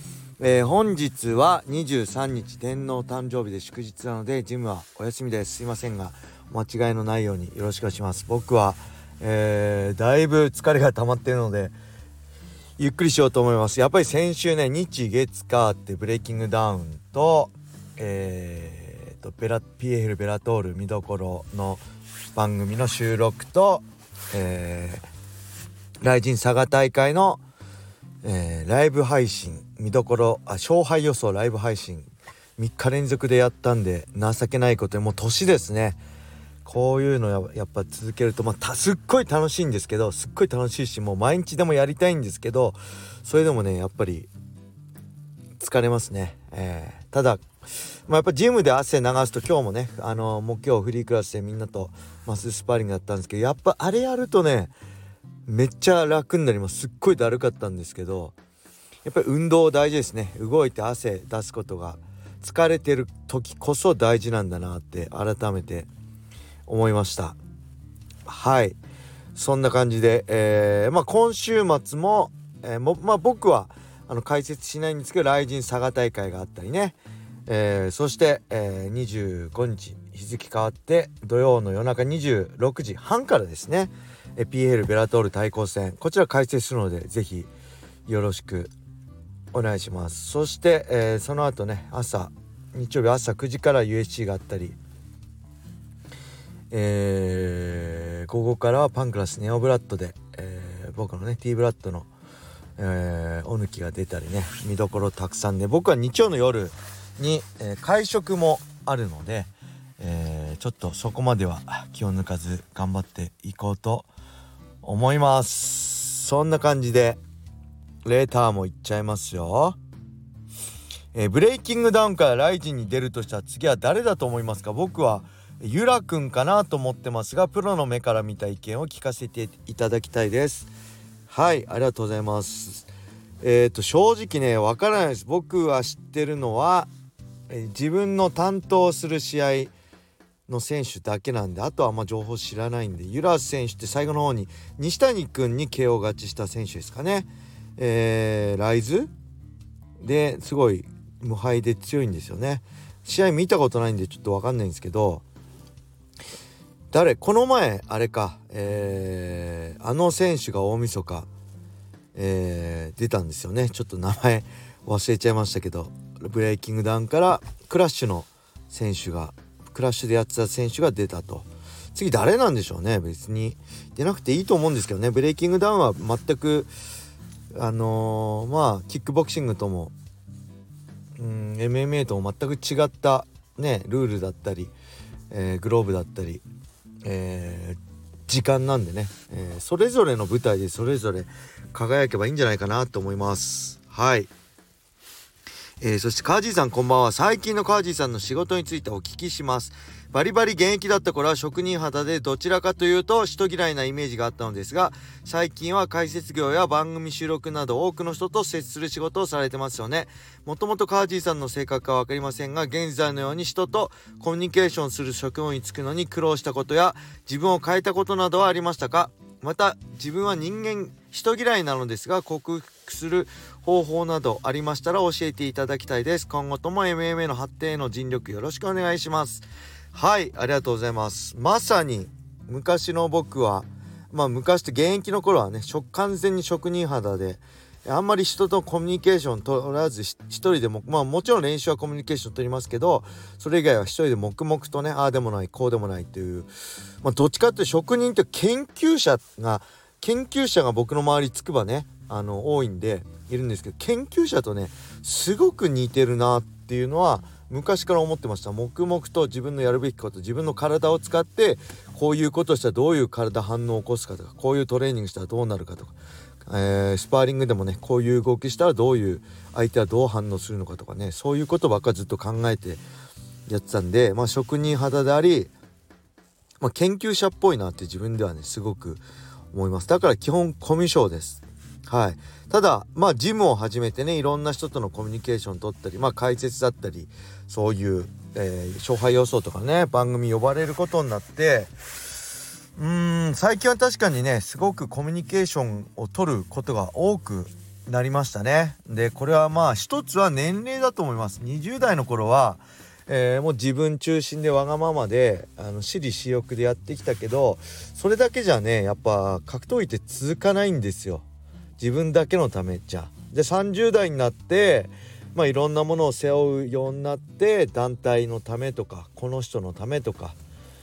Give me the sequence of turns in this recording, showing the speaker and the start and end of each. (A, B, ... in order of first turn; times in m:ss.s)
0:00.4-0:11.7 A
0:12.8-0:21.8 A
0:22.4-0:25.0 A
0:26.0-0:27.4 A
0:28.2-0:36.0 A
0:36.6-0:44.3 A
0:45.6-0:54.7 A
0:55.5-0:58.4 A
0:59.0-1:05.9 A
1:06.7-1:07.4 A
1:08.3-1:08.8 A
1:09.4-1:27.5 A
1:28.1-1:28.7 A
1:29.5-1:34.8 A
1:36.7-1:42.1 A
1:42.8-1:54.1 A
1:54.8-1:57.2 A
1:58.0-1:59.8 A
2:01.1-2:10.7 A
2:11.3-2:12.9 A
2:13.4-2:16.9 A
2:17.5-2:19.7 A
2:20.5-2:29.1 A
2:30.0-2:35.2 A
2:36.9-2:41.3 A
2:42.2-2:56.7 A
2:57.5-2:59.9 A
3:01.2-3:04.7 A
3:05.3-3:06.4 A
3:07.0-3:14.3 A
3:15.8-4:06.5 A
4:07.0-4:32.8 A
4:33.5-4:35.5 A
4:36.6-4:51.7 A
4:52.8-5:11.2 A
5:11.8-5:20.4 A